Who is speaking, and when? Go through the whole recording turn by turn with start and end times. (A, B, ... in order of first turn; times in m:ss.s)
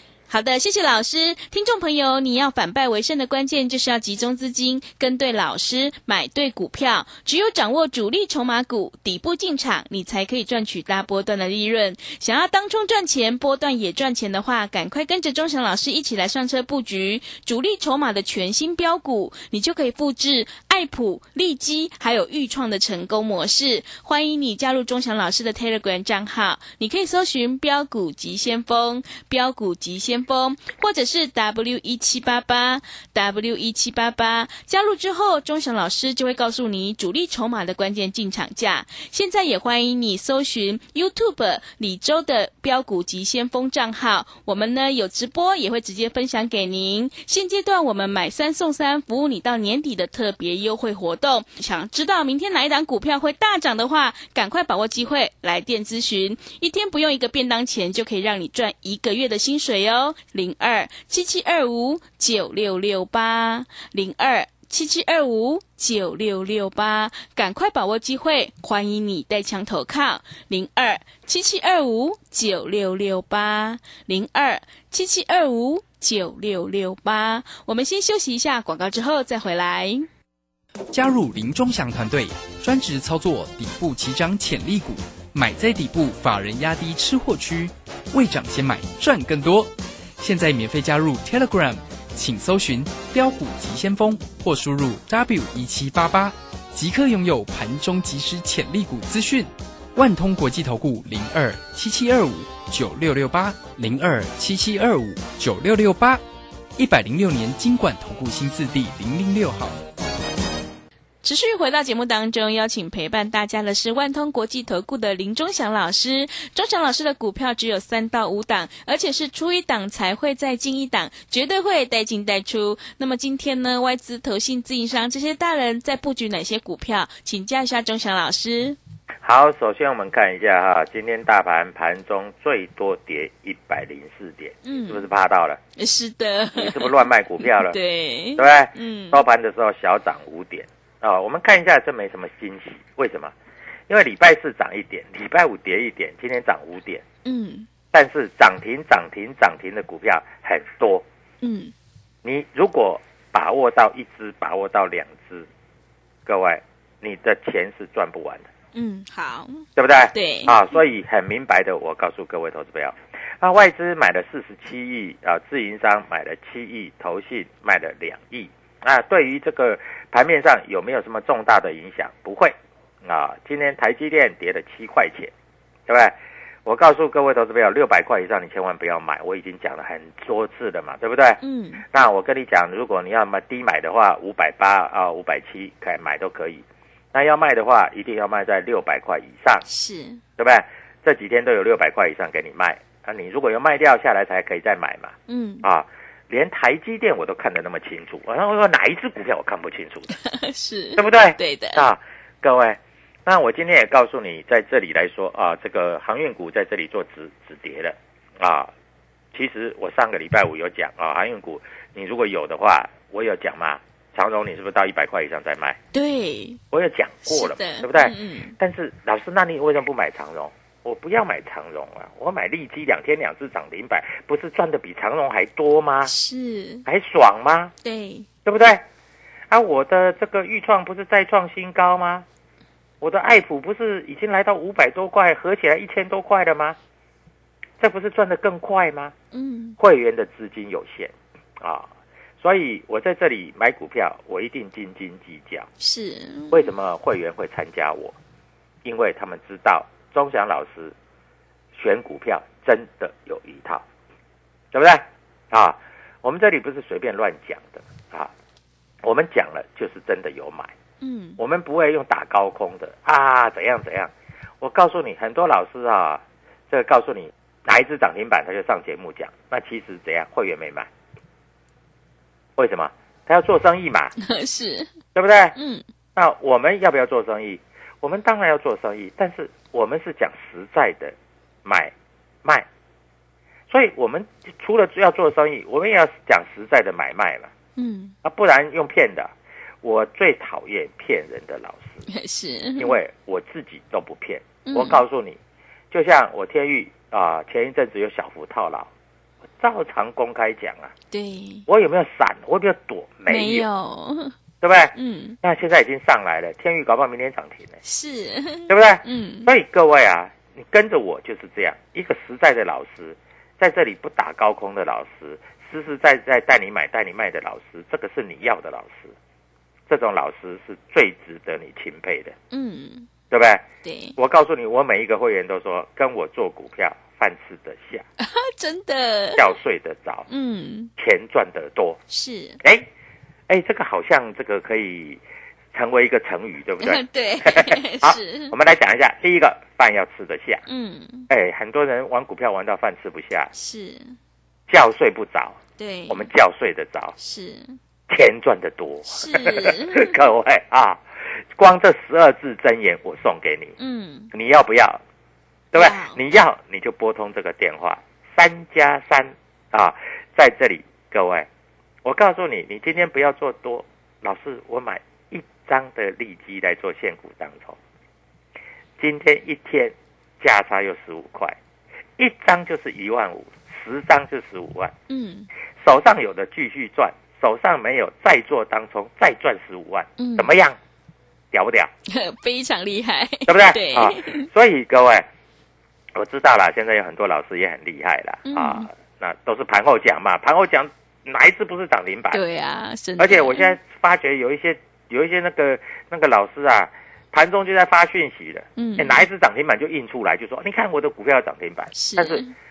0:00.3-1:20.1 A
1:20.9-1:46.2 B
1:46.8-1:49.8 B
1:51.2-2:08.8 A
2:09.2-2:15.6 C
2:14.6-2:15.0 A
2:15.8-2:19.2 A
2:16.5-2:17.8 C
2:18.4-2:23.3 C
2:23.9-2:27.0 C
2:27.2-2:27.7 A
2:27.9-2:31.0 C
2:31.4-2:31.7 A
2:32.2-2:35.5 C
2:36.2-2:38.5 C
2:38.7-2:40.6 A
2:39.8-2:55.3 C
2:55.9-2:56.1 C
2:56.6-3:09.6 C
3:01.4-3:01.8 A
3:09.7-3:10.2 A
3:10.4-3:20.1 C
3:15.3-3:15.6 A
3:20.1-3:21.8 A
3:21.0-3:28.7 C
3:29.3-3:35.8 C
3:35.9-3:36.6 A
3:36.7-3:46.1 C
3:37.2-3:38.6 A
3:46.0-3:46.8 A
3:46.8-3:47.7 C
3:47.8-3:48.3 A
3:48.4-3:48.8 C
3:49.5-3:52.2 C
3:53.0-3:56.8 C
3:57.8-3:59.1 C
3:59.3-3:59.8 A
3:59.8-4:01.9 C
4:02.4-4:05.7 C
4:05.8-4:06.7 A
4:06.5-4:08.1 C
4:08.8-4:10.9 C
4:11.7-4:13.8 C
4:14.7-4:18.3 C
4:19.0-4:20.7 C
4:21.0-4:21.4 A
4:21.4-4:30.9 C
4:32.6-4:34.1 C
4:34.2-4:34.9 A
4:35.1-4:35.5 C
4:35.5-4:35.8 A
4:36.2-4:41.9 C
4:43.7-4:47.5 C
4:47.8-4:48.1 A
4:48.2-4:49.3 C
4:49.8-4:52.0 C
4:52.1-4:53.0 A
4:52.8-4:55.4 C
4:54.6-4:55.0 A
4:55.9-4:58.9 C
4:59.6-5:00.9 C
5:01.1-5:01.6 A
5:01.7-5:03.7 C
5:03.3-5:04.4 A
5:04.6-5:07.8 C
5:04.9-5:05.4 A
5:07.8-5:09.5 A
5:08.7-5:19.1 C
5:19.9-5:22.3 C
5:22.5-5:23.1 A
5:23.3-5:23.6 C
5:23.8-5:24.2 A
5:24.2-5:28.0 C
5:28.2-5:29.5 A
5:29.3-5:30.3 C
5:30.3-5:30.9 A
5:31.0-5:32.0 C
5:32.1-5:32.6 A
5:32.6-5:32.9 C
5:33.5-5:35.2 C
5:35.7-5:40.6 C
5:36.8-5:38.5 A
5:40.7-5:41.3 A
5:41.3-5:43.5 C
5:43.5-5:44.2 A
5:44.7-5:45.6 C
5:45.8-5:46.3 A
5:46.1-5:47.1 C
5:47.2-5:47.8 A
5:48.1-5:51.0 C
5:49.1-5:50.2 A
5:51.6-5:53.7 C
5:53.8-5:54.3 A
5:54.3-5:55.0 C
5:55.7-6:01.5 C
5:55.7-5:56.2 A
6:02.0-6:07.8 C
6:09.0-6:11.6 C
6:12.2-6:14.9 C
6:15.1-6:15.5 A
6:15.8-6:20.8 C
6:20.2-6:20.5 A
6:21.5-6:21.9 C
6:22.1-6:24.5 A
6:23.5-6:25.2 C
6:26.1-6:32.4 C
6:28.4-6:28.9 A
6:32.3-6:33.7 A
6:33.2-6:42.4 C
6:38.8-6:39.2 A
6:41.9-6:42.5 A